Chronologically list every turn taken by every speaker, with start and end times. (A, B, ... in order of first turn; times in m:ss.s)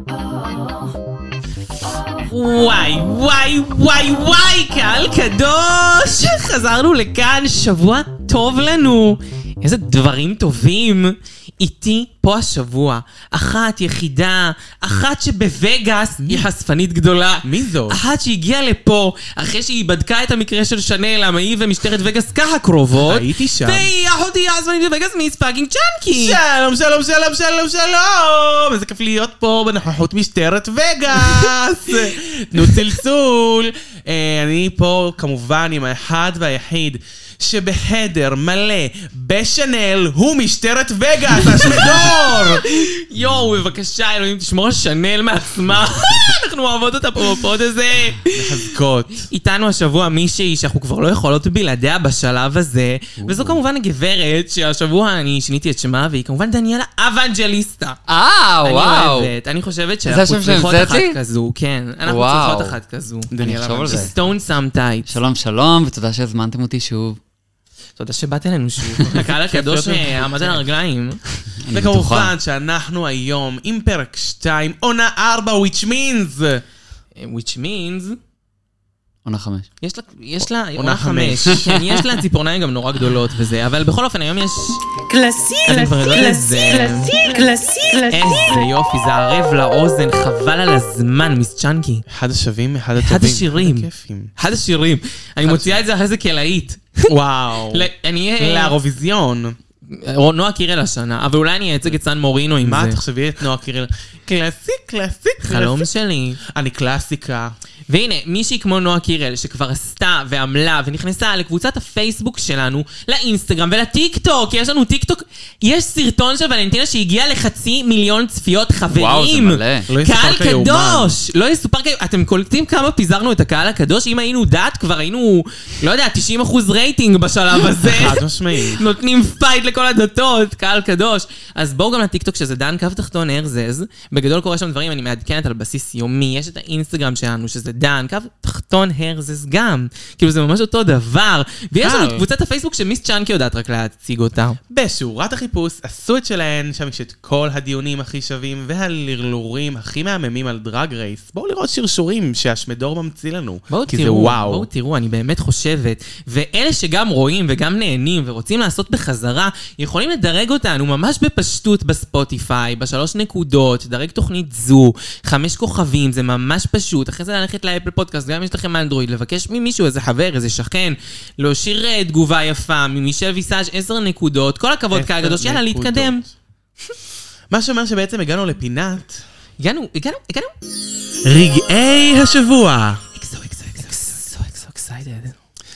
0:02.3-0:26.4 A
0:16.2-0:16.5 B
0:17.4-0:18.0 B
0:23.0-0:23.9 B
0:26.1-0:42.7 B
0:31.1-0:31.4 A
0:32.6-0:32.9 A
0:41.6-0:48.6 A
0:48.3-0:49.3 B
0:49.3-0:58.0 A
0:53.2-0:53.6 C
0:58.1-0:59.3 C
0:58.6-1:03.3 A
1:00.1-1:01.2 C
1:02.0-1:02.8 C
1:03.3-1:04.2 B
1:03.4-1:04.1 C
1:03.9-1:05.1 A
1:05.1-1:07.2 C
1:08.0-1:11.2 A
1:09.3-1:10.6 B
1:11.6-1:12.3 C
1:11.7-1:16.6 B
1:17.2-1:18.2 A
1:19.2-1:19.7 C
1:19.8-1:24.8 A
1:20.8-1:21.8 B
1:25.1-1:28.7 D
1:25.7-1:27.1 A
1:28.1-1:32.0 A
1:32.1-1:34.3 B
1:33.0-1:37.1 A
1:35.4-1:35.8 B
1:37.1-1:39.6 B
1:37.7-1:38.8 A
1:39.9-1:43.0 A
1:42.6-1:45.9 B
1:45.4-1:46.4 A
1:46.4-1:47.5 B
1:47.9-2:24.6 A
1:58.9-1:59.9 C
1:59.9-2:01.2 B
2:07.8-2:08.8 B
2:21.8-2:22.3 B
2:24.7-2:34.7 B
2:33.7-2:56.2 A
2:54.9-2:56.3 B
2:57.5-2:59.2 B
2:59.6-3:00.5 A
3:01.2-3:03.0 B
3:03.2-3:05.4 A